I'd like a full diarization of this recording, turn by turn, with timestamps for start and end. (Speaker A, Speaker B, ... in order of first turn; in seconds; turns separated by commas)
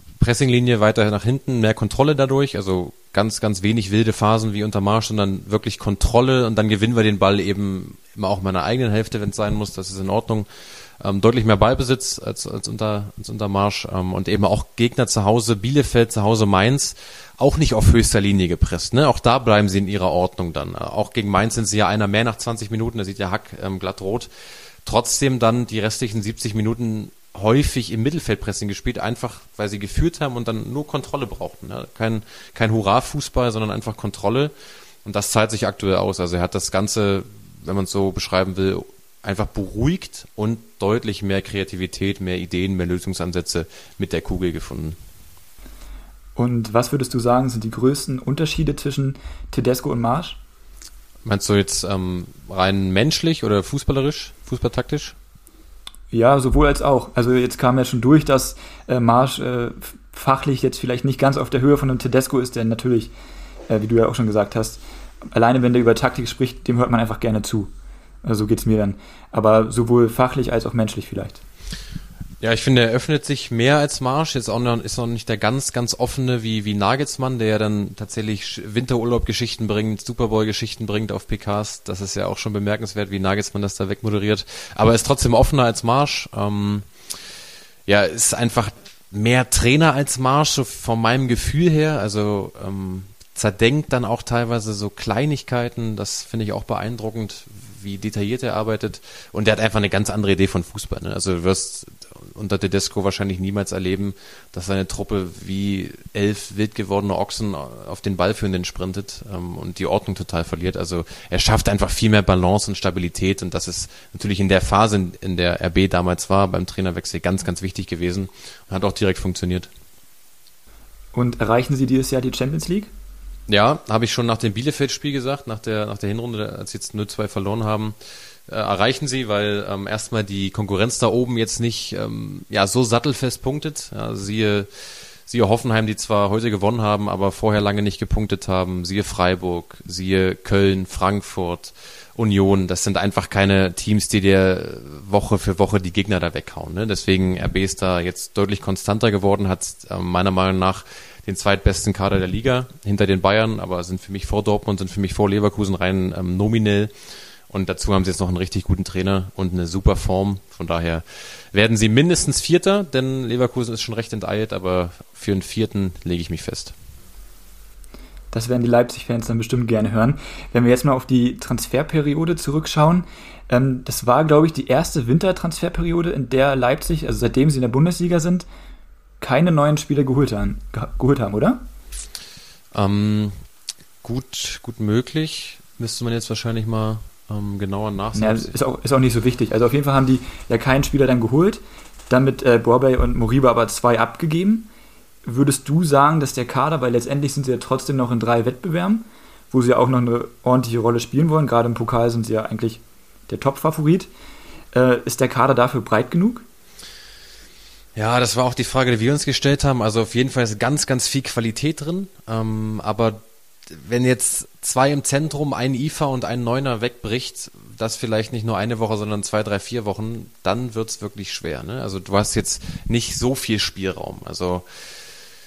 Speaker A: 0.2-10.5, Speaker A: 11.0-24.3, Speaker A: 24.8-34.5, Speaker A: 35.0-45.0, Speaker B: 46.4-50.4, Speaker A: 51.2-55.1, Speaker B: 56.1-63.1, Speaker B: 63.7-64.8, Speaker B: 65.3-67.7, Speaker B: 68.2-71.4, Speaker A: 72.4-86.9, Speaker A: 87.9-119.7, Speaker B: 121.1-122.9, Speaker A: 123.5-127.9, Speaker A: 128.5-134.7, Speaker A: 135.3-156.9, Speaker A: 157.5-166.7, Speaker B: 168.3-178.5, Speaker B: 179.2-181.6, Speaker A: 182.7-183.3, Speaker A: 184.0-188.5, Speaker B: 188.1-194.7, Speaker B: 195.2-204.1, Speaker B: 204.7-206.4, Speaker A: 207.9-224.7